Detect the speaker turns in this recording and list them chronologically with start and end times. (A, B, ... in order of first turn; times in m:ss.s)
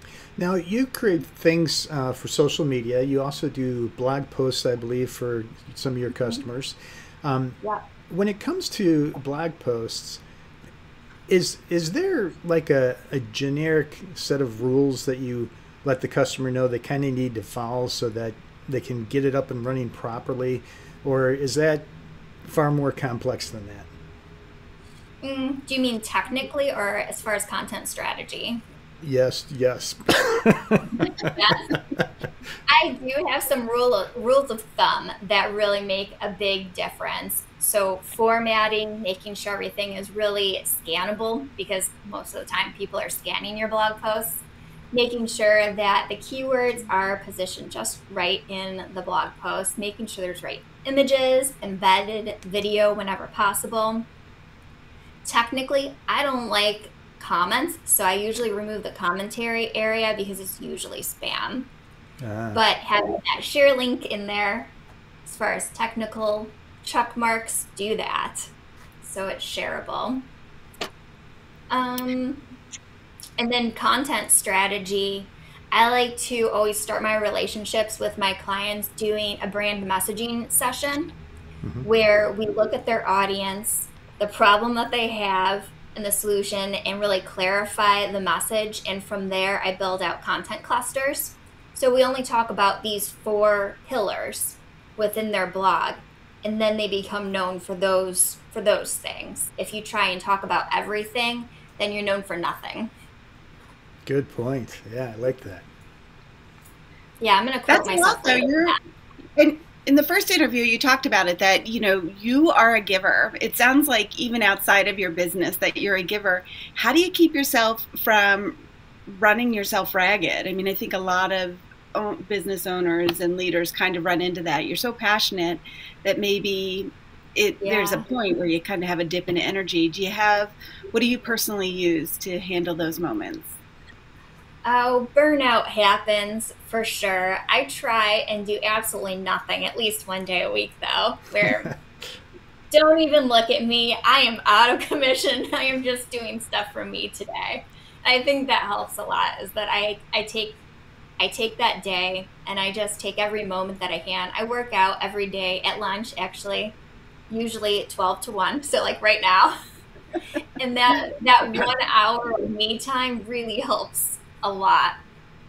0:00.4-0:07.6 A
0:08.1-0:10.2 A
0:11.3-0:21.9 A
0:22.4-0:23.9 A
0:25.2-0:28.6 B
0:29.0-0:32.0 A
0:31.0-0:31.8 B
0:32.7-0:54.1 B
0:55.2-1:01.7 B
1:02.2-1:02.6 A
1:02.5-1:04.7 B
1:05.2-1:10.2 B
1:11.7-1:12.5 B
1:13.4-1:21.1 B
1:21.6-1:21.9 A
1:21.8-1:42.9 B
1:44.0-1:45.6 A
1:47.2-1:48.8 B
1:47.7-1:48.8 C
1:49.4-2:13.5 C
2:07.6-2:08.0 B
2:14.6-2:21.7 B
2:21.4-2:21.7 A
2:22.7-2:30.6 B
2:31.2-2:36.8 B
2:37.3-2:39.6 B
2:40.6-2:45.0 B